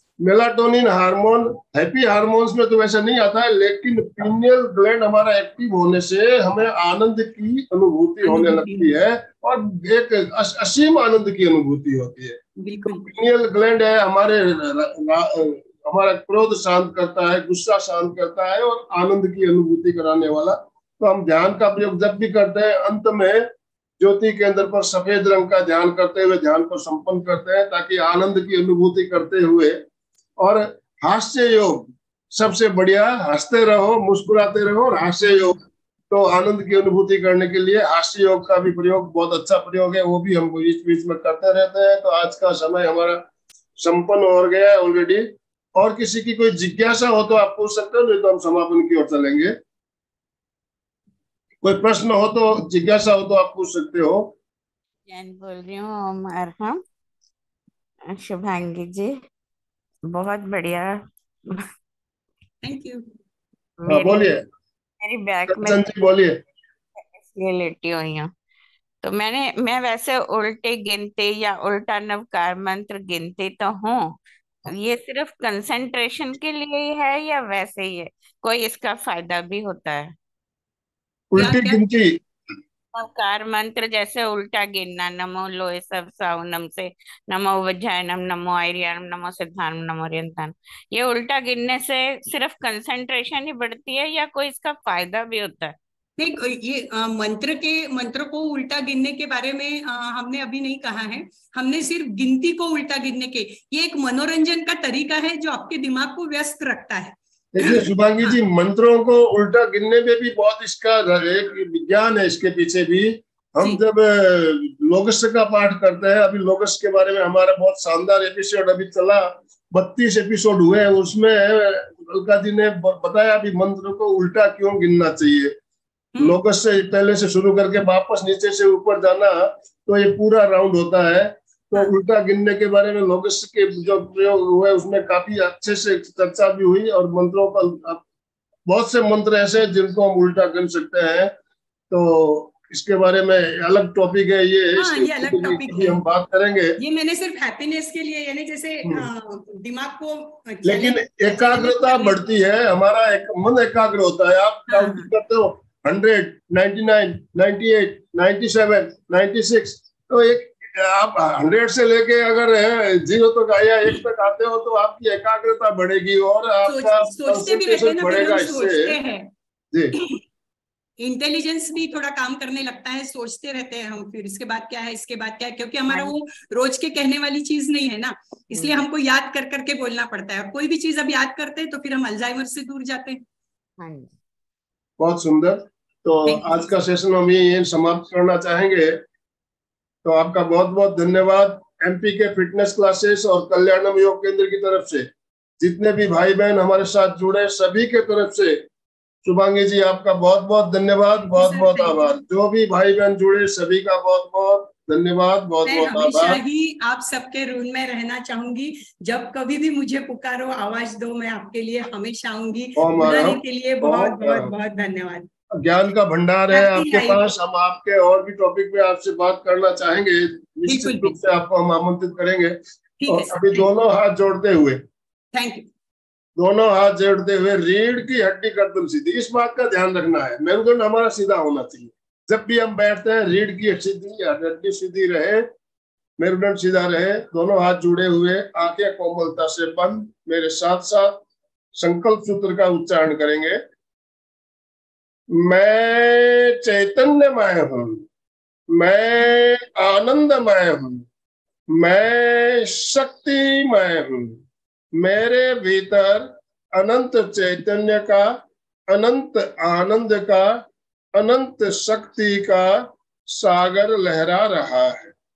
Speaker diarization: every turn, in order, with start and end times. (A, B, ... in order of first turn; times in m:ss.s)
0:00.2-0:12.4 A
0:08.2-0:08.9 B
0:12.6-0:13.1 B
0:13.0-0:29.8 A
0:30.4-0:49.6 A
0:51.6-0:54.4 A
0:55.1-0:56.8 C
0:58.1-0:59.2 C
1:00.1-1:01.7 C
1:02.6-1:03.1 B
1:03.8-1:04.3 C
1:03.9-1:04.4 A
1:05.0-1:05.8 C
1:05.5-1:06.4 A
1:07.2-1:08.3 C
1:09.0-1:14.2 C
1:14.7-1:20.1 C
1:21.3-1:22.2 A
1:21.4-1:21.8 B
1:23.0-1:35.8 C
1:36.2-1:48.4 B
1:47.5-2:05.6 A
2:06.2-2:18.0 A
2:18.7-2:21.3 A
2:21.9-2:26.8 A
2:24.8-2:26.0 B
2:26.8-2:32.3 B
2:30.6-2:49.0 A
2:34.7-2:35.1 B
2:46.6-2:49.3 B
2:51.0-3:03.2 B
3:03.8-3:04.1 C
3:05.0-3:09.0 A
3:06.3-3:06.7 B
3:10.0-3:15.1 A
3:15.6-3:18.6 A
3:19.2-3:26.4 A
3:21.3-3:22.2 B
3:25.7-3:35.3 B
3:32.8-3:34.5 A
3:35.6-3:44.8 A
3:36.5-3:37.2 B
3:40.7-3:41.2 B
3:43.0-3:43.7 B
3:45.3-3:45.7 B
3:46.4-3:55.5 A
3:56.2-4:01.2 A
4:01.8-4:03.6 A
4:05.3-4:08.0 A
4:08.7-4:11.1 A
4:11.7-4:14.4 A
4:15.0-4:18.4 A
4:18.9-4:25.1 A